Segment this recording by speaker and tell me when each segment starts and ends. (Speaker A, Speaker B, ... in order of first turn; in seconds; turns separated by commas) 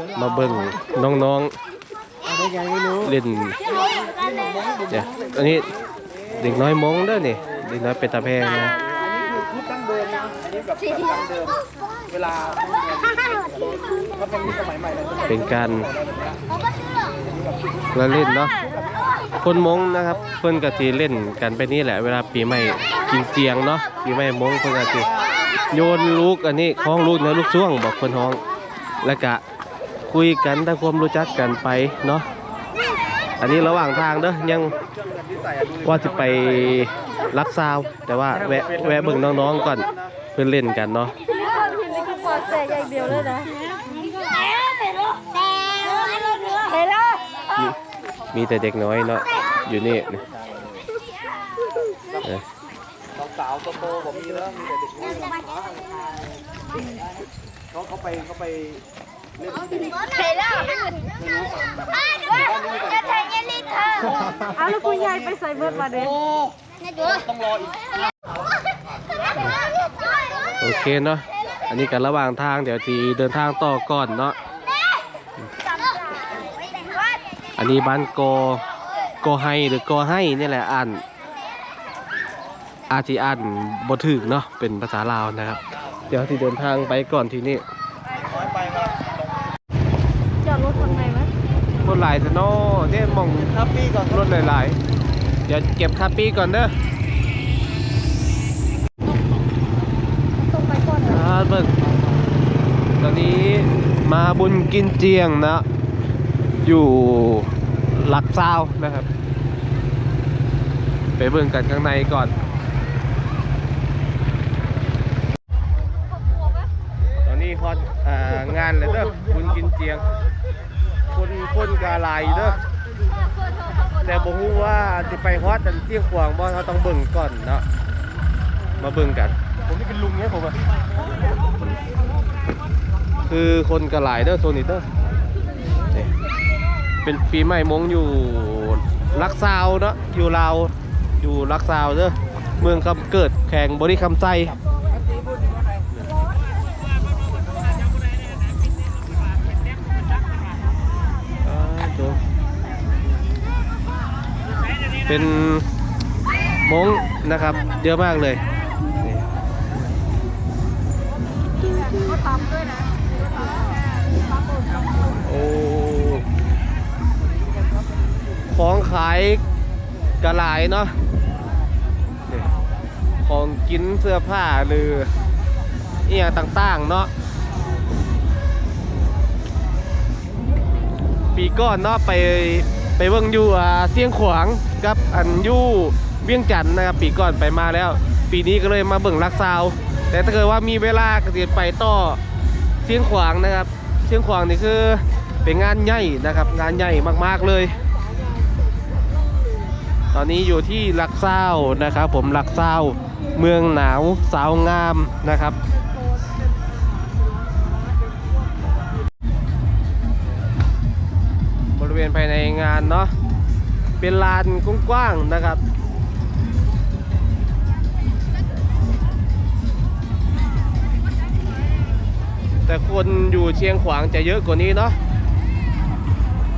Speaker A: 0.1-1.5, Speaker A: 3.0-3.6, Speaker A: 4.9-5.7, Speaker A: 6.4-8.8, Speaker B: 9.6-10.3, Speaker B: 12.1-12.6, Speaker A: 15.2-15.9, Speaker A: 17.9-18.6, Speaker A: 19.4-25.1, Speaker A: 25.7-28.4, Speaker A: 29.0-29.4, Speaker A: 30.1-32.2, Speaker A: 33.4-34.8, Speaker A: 35.8-41.1, Speaker C: 41.4-43.5, Speaker C: 45.8-47.1, Speaker A: 48.3-50.2, Speaker B: 53.4-55.1, Speaker B: 58.1-58.6, Speaker C: 64.0-66.2, Speaker A: 70.6-74.3, Speaker A: 77.6-78.6, Speaker A: 79.2-81.0, Speaker A: 82.9-87.6, Speaker C: 90.4-91.3, Speaker A: 91.8-94.8, Speaker A: 95.5-96.7, Speaker C: 100.5-101.1, Speaker A: 101.0-101.7, Speaker A: 103.0-105.6, Speaker A: 106.6-109.1, Speaker A: 111.2-112.3, Speaker A: 117.2-120.1, Speaker A: 121.1-122.6, Speaker A: 124.0-127.6, Speaker A: 128.8-129.3, Speaker A: 129.9-130.5, Speaker A: 133.3-134.9, Speaker A: 137.0-144.6, Speaker A: 151.4-152.2, Speaker A: 155.1-155.7, Speaker A: 156.6-158.4, Speaker A: 161.7-162.2, Speaker C: 162.4-162.8, Speaker A: 165.1-166.2, Speaker A: 168.5-169.4, Speaker A: 170.2-170.9, Speaker A: 173.2-175.1, Speaker A: 176.0-177.1, Speaker A: 181.3-192.2, Speaker A: 192.8-197.8, Speaker A: 200.1-205.6, Speaker A: 211.7-213.1, Speaker A: 214.0-215.6, Speaker A: 222.7-224.9